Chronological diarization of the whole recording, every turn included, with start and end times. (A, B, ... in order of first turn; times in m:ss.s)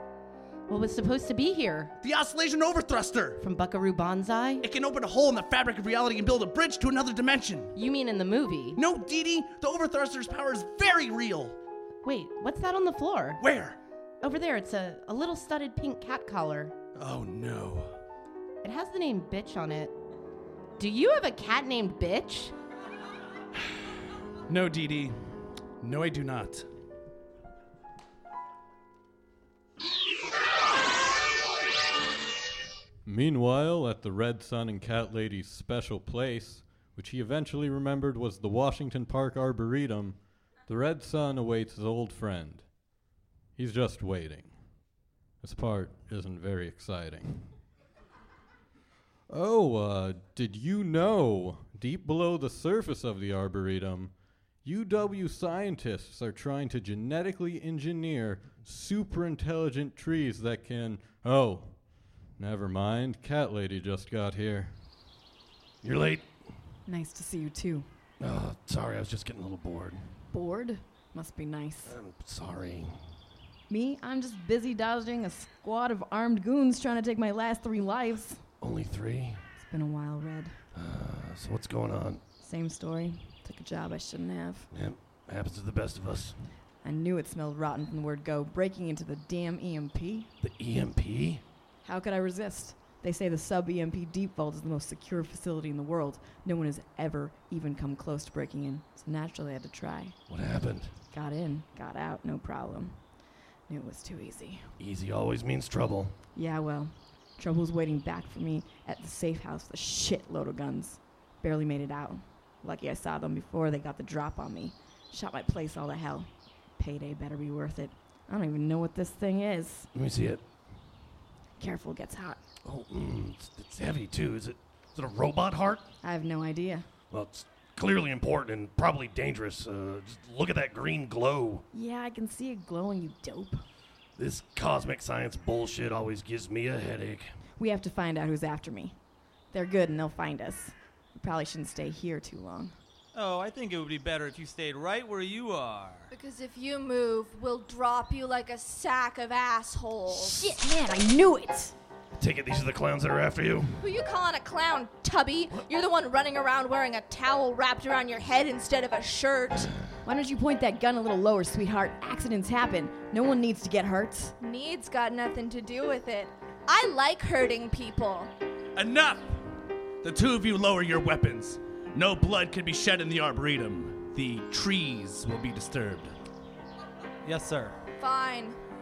0:00.7-0:01.9 A
0:02.0-0:03.4 B
0:03.4-0:04.6 A
0:04.6-0:07.7 B
0:07.8-0:08.8 A
0:08.8-0:11.6 B
0:12.0-0:13.4 A
0:13.4-0:13.8 B
0:14.2-0:16.8 A
0:17.0-0:17.9 B
0:18.6-0:20.0 A
0:20.8-0:22.5 A
0:24.5-0:25.2 B
0:25.8-0:26.6 B
0:33.0-0:42.7 C
0:43.6-0:44.5 C
0:45.4-0:47.5 C
0:49.3-0:54.1 C
0:54.6-1:01.8 C
1:02.4-1:04.8 C
1:05.8-1:06.3 D
1:06.9-1:07.9 E
1:08.2-1:10.0 D
1:10.3-1:12.0 E
1:11.8-1:13.0 D
1:13.7-1:18.4 E
1:18.6-1:19.4 D
1:19.6-1:20.6 E
1:20.8-1:22.2 D
1:22.4-1:24.7 E
1:24.7-1:26.4 D
1:26.8-1:30.3 E
1:30.4-1:31.4 D
1:31.8-1:40.2 E
1:40.3-1:40.9 D
1:41.1-1:43.0 E
1:43.7-1:44.7 E
1:44.8-1:46.2 D
1:46.4-1:59.9 E
1:59.9-2:00.4 D
2:01.6-2:02.4 E
2:02.6-2:05.9 D
2:06.0-2:06.9 E
2:07.1-2:11.6 D
2:11.7-2:13.6 E
2:14.2-2:17.3 D
2:17.6-2:19.0 E
2:19.5-2:22.8 E
2:23.1-2:26.1 F
2:26.1-2:30.4 G
2:30.1-2:31.8 E
2:32.2-2:33.8 D
2:33.8-2:39.7 G
2:40.0-2:44.3 E
2:44.4-2:48.3 G
2:48.8-2:49.3 B
2:50.0-2:56.1 B
2:57.2-2:57.8 F
2:58.0-2:58.6 G